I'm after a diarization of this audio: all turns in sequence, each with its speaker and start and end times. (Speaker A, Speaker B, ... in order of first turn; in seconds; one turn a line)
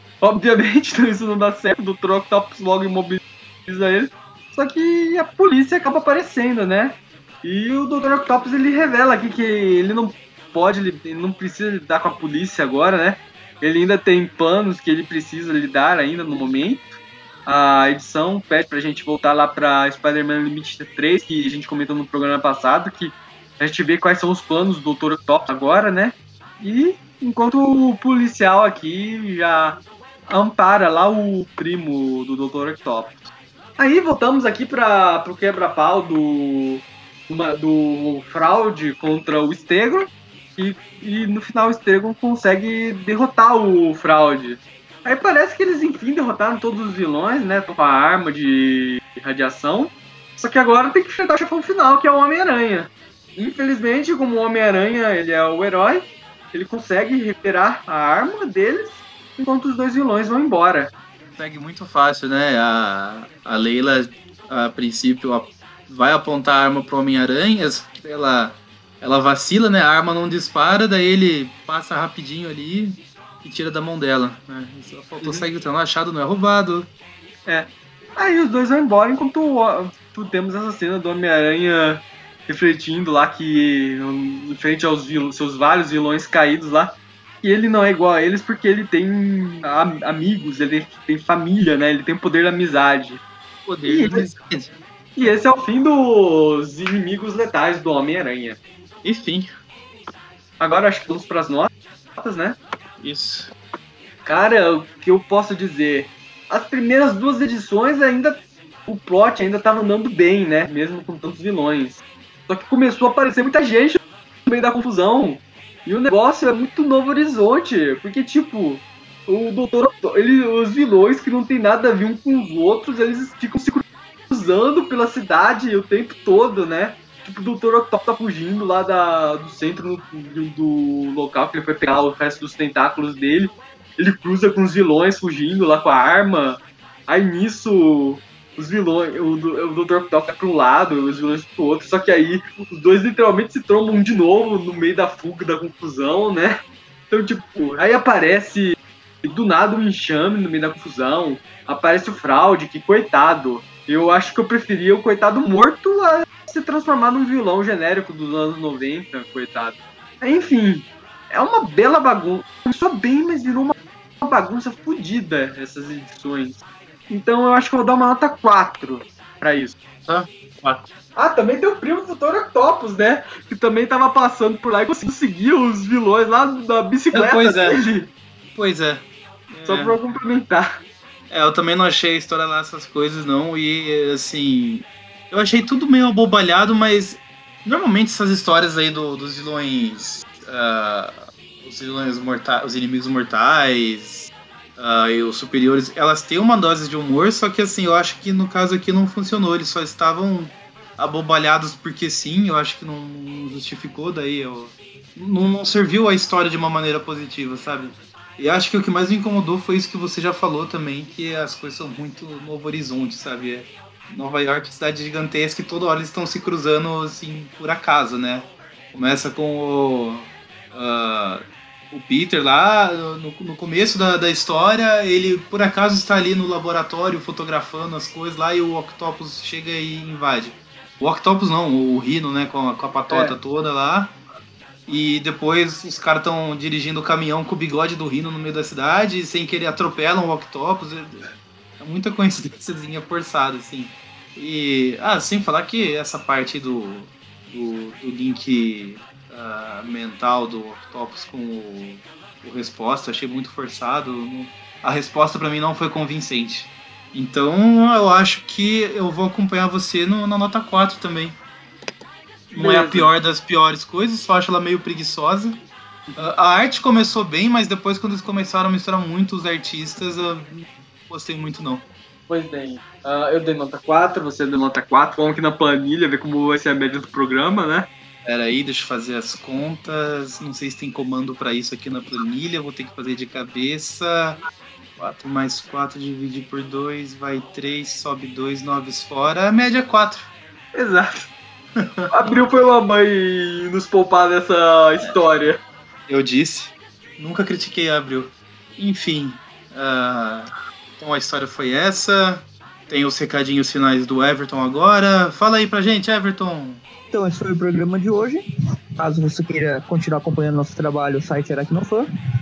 Speaker A: 0.2-16.9
Speaker A: 17.5-60.9
Speaker B: 61.4-76.9
Speaker A: 75.2-75.5
Speaker A: 77.5-93.2
Speaker B: 93.7-94.7
Speaker A: 93.8-94.3
Speaker A: 95.2-98.6
Speaker B: 99.0-99.5
Speaker A: 100.6-102.6
Speaker B: 103.0-103.5
Speaker A: 104.2-146.6
Speaker A: 147.1-169.8
Speaker B: 170.1-170.9
Speaker A: 171.2-178.1
Speaker B: 177.1-177.8
Speaker B: 178.6-180.0
Speaker A: 179.7-180.7
Speaker B: 181.3-234.2
Speaker A: 233.1-233.3
Speaker B: 234.9-241.2
Speaker B: 241.8-261.4
Speaker B: 262.5-265.6
Speaker A: 262.6-263.1
Speaker B: 266.2-271.9
Speaker A: 272.3-277.9
Speaker B: 278.2-284.4
Speaker B: 285.0-290.3
Speaker A: 290.8-291.3
Speaker B: 291.8-292.1
Speaker A: 292.1-295.6
Speaker B: 296.1-306.8
Speaker C: 307.1-308.4
Speaker C: 309.0-312.1